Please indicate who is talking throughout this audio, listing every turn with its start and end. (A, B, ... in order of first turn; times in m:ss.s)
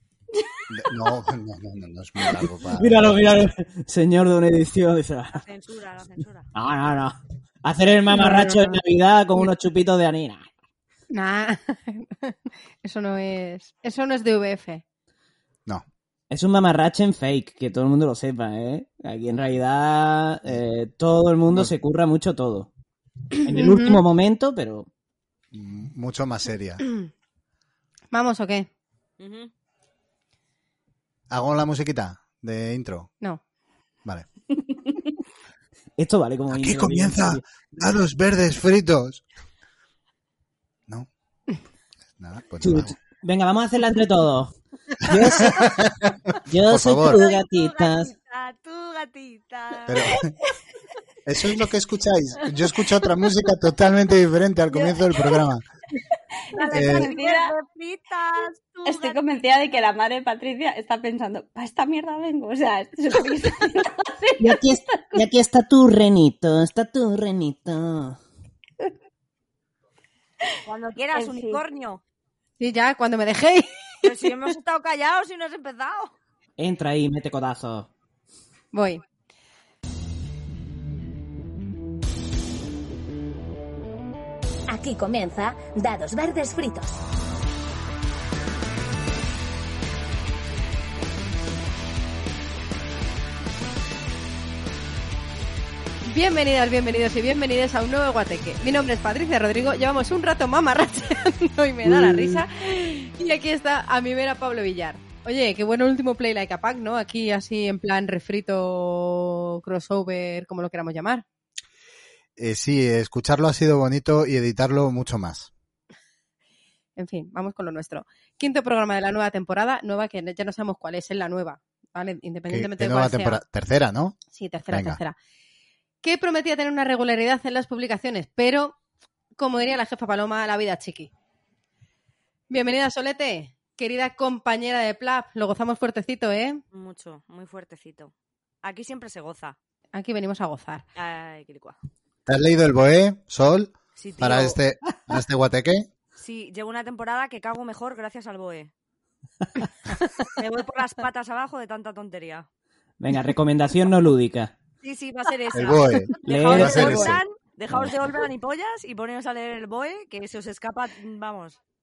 0:00.7-0:03.5 A
0:02.7-0:05.4 B
0:05.3-0:06.5 C
0:06.5-0:10.5 B
0:08.1-0:08.8 D
0:11.1-0:14.8 D
0:16.3-0:22.7 B
0:23.4-0:24.9 B
0:23.6-0:23.9 D
0:25.5-0:26.8 A
0:28.1-0:28.7 D
0:29.2-0:29.5 C
0:31.3-0:33.1 A
0:36.0-0:37.4 B
0:36.5-0:39.2 A
0:42.2-0:43.0 A
0:42.6-0:45.7 B
0:45.1-0:47.2 A
0:46.5-0:48.1 B
0:47.0-0:50.1 C
0:49.9-0:50.3 A
0:51.2-0:55.6 A
0:56.5-0:59.2 C
0:56.5-0:57.5 E
0:56.7-0:57.1 A
0:58.8-1:05.2 E
1:04.4-1:08.2 B
1:10.7-1:12.0 C
1:11.1-1:11.6 E
1:12.6-1:13.8 D
1:14.0-1:16.1 C
1:16.6-1:17.9 B
1:18.7-1:19.0 D
1:24.7-1:27.0 F
1:36.0-1:51.2 D
1:41.8-1:42.4 B
1:52.4-1:55.5 A
1:57.0-2:03.4 D
2:02.5-2:04.2 A
2:04.3-2:05.2 D
2:04.7-2:05.0 A
2:06.0-2:08.8 D
2:09.4-2:11.1 D
2:12.5-2:16.6 D
2:16.7-2:19.6 C
2:19.9-2:20.8 D
2:21.0-2:21.8 C
2:22.2-2:25.9 A
2:24.0-2:24.6 C
2:26.2-2:28.7 C
2:30.2-2:32.5 C
2:33.0-2:34.5 B
2:34.8-2:41.6 C
2:35.5-2:37.2 A
2:36.2-2:37.2 B